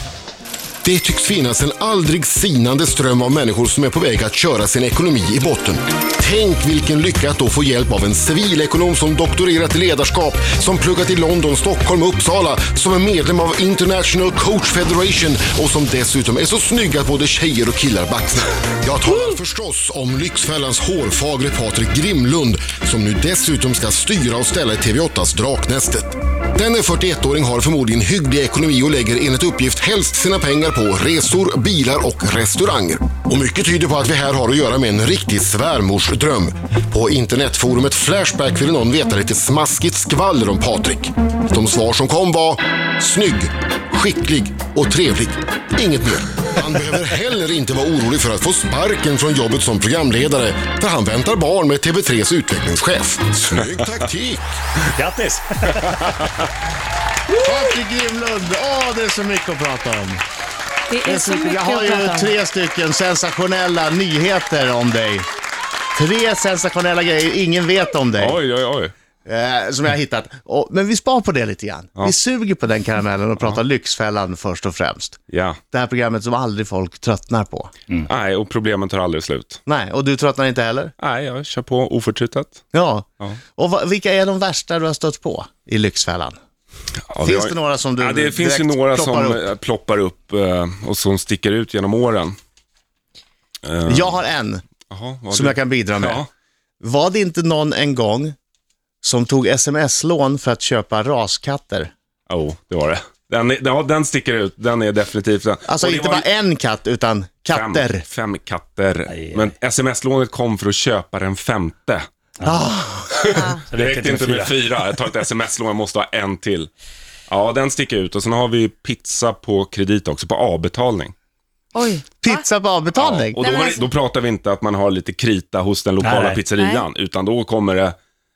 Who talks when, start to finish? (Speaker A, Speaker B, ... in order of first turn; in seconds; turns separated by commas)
Speaker A: 0.8-54.5, Speaker B: 55.0-56.1, Speaker C: 57.4-60.2, Speaker D: 60.9-62.3, Speaker C: 61.1-65.3, Speaker C: 66.0-68.4, Speaker E: 68.2-68.9, Speaker C: 69.3-75.2, Speaker E: 75.3-75.6, Speaker C: 75.7-77.7, Speaker E: 78.1-79.6, Speaker C: 79.7-80.9, Speaker E: 81.0-82.7, Speaker C: 82.7-86.4, Speaker E: 87.1-92.4, Speaker C: 87.2-89.4, Speaker E: 93.6-94.2, Speaker C: 93.9-94.6, Speaker E: 94.9-96.3, Speaker C: 95.3-96.2, Speaker C: 96.8-98.3, Speaker C: 99.0-101.9, Speaker E: 102.3-106.3, Speaker C: 105.7-108.0, Speaker E: 107.5-112.1, Speaker B: 109.1-109.5, Speaker C: 112.5-113.5, Speaker E: 113.1-116.7, Speaker D: 113.3-113.6, Speaker B: 113.7-114.5, Speaker E: 117.3-121.1, Speaker D: 121.7-122.4, Speaker C: 122.2-123.4, Speaker E: 122.9-128.0, Speaker D: 123.4-123.8, Speaker B: 126.0-126.4, Speaker D: 126.6-126.8